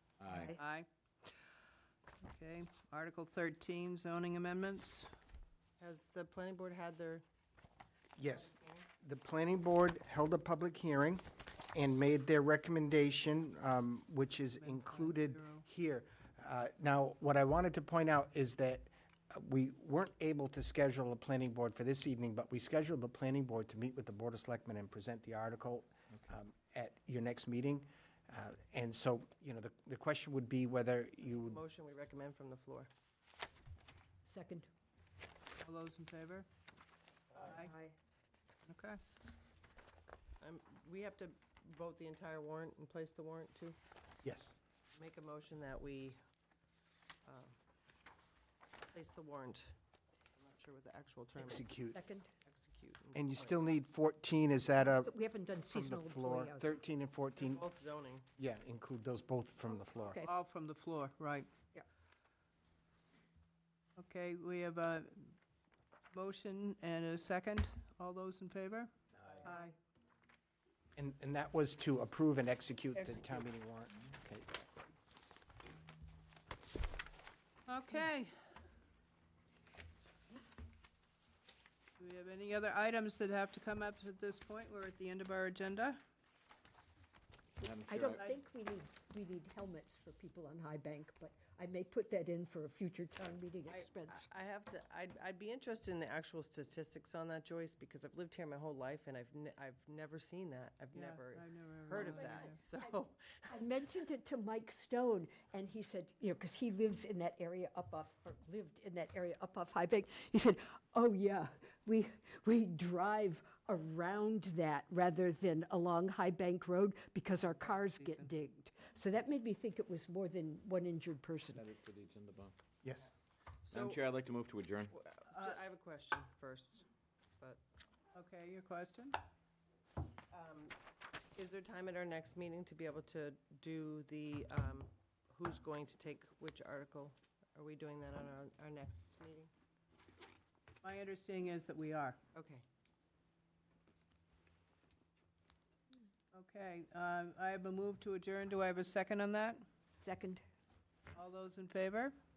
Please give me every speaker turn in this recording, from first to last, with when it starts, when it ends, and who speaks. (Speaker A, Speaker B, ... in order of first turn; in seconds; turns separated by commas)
Speaker A: 0.2-0.5, Speaker B: 0.3-0.6, Speaker C: 0.5-0.9, Speaker C: 2.2-5.1, Speaker D: 5.8-7.2, Speaker E: 8.2-31.6, Speaker D: 8.4-8.9, Speaker C: 14.5-15.7, Speaker D: 31.2-32.9, Speaker B: 34.2-34.7, Speaker C: 35.6-36.5, Speaker C: 37.4-37.7, Speaker B: 37.4-38.0, Speaker C: 38.7-39.0, Speaker D: 40.4-43.8, Speaker E: 44.2-44.5, Speaker D: 44.9-46.2, Speaker D: 47.3-47.5, Speaker D: 48.9-49.7, Speaker D: 50.4-51.8, Speaker E: 51.4-52.0, Speaker B: 51.9-52.3, Speaker D: 52.5-53.8, Speaker E: 53.1-55.1, Speaker B: 54.7-56.8, Speaker E: 55.7-57.6, Speaker D: 57.4-58.3, Speaker E: 58.4-60.2, Speaker B: 60.0-60.3, Speaker C: 60.2-61.5, Speaker C: 64.0-65.3, Speaker C: 66.1-68.9, Speaker C: 69.4-69.7, Speaker E: 71.0-74.7, Speaker C: 72.9-73.5, Speaker C: 77.7-78.3, Speaker C: 82.0-86.0, Speaker A: 87.6-88.2, Speaker B: 87.8-94.3, Speaker D: 93.7-103.5, Speaker C: 100.9-102.6, Speaker B: 101.9-102.5, Speaker B: 103.5-121.7, Speaker C: 117.6-118.3, Speaker A: 121.5-122.5, Speaker E: 122.8-123.1, Speaker D: 122.9-124.1, Speaker A: 123.7-125.0, Speaker D: 124.9-126.9, Speaker C: 125.3-125.6, Speaker C: 128.1-129.2, Speaker D: 130.3-130.8, Speaker D: 131.4-139.5, Speaker C: 140.8-142.2, Speaker D: 142.3-142.6, Speaker C: 146.3-149.7, Speaker B: 150.0-150.4, Speaker C: 151.2-152.2